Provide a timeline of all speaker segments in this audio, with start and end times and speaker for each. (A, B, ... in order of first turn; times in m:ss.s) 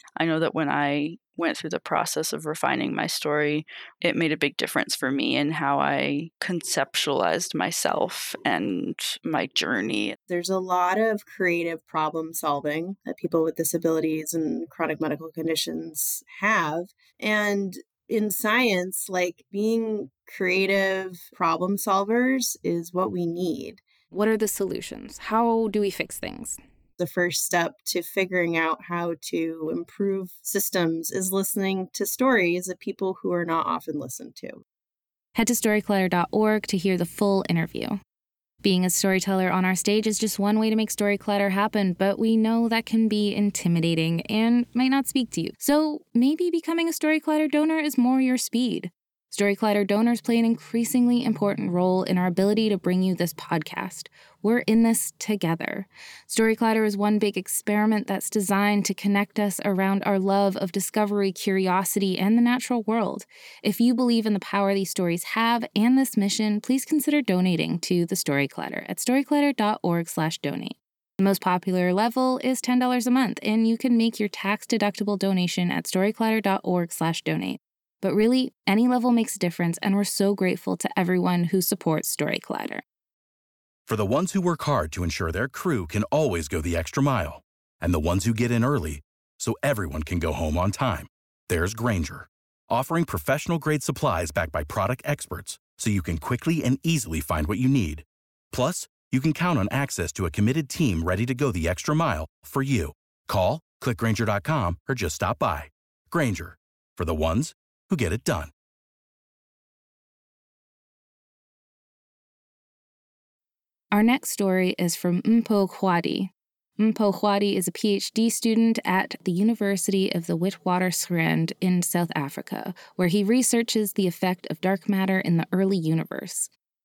0:00.2-0:10.2 A
0:10.3-0:23.8 B
0:24.1-0:26.6 C
0:27.0-0:34.6 B
0:35.4-0:38.0 C
0:38.6-1:22.8 C
1:23.9-1:48.5 D
1:53.9-2:06.5 C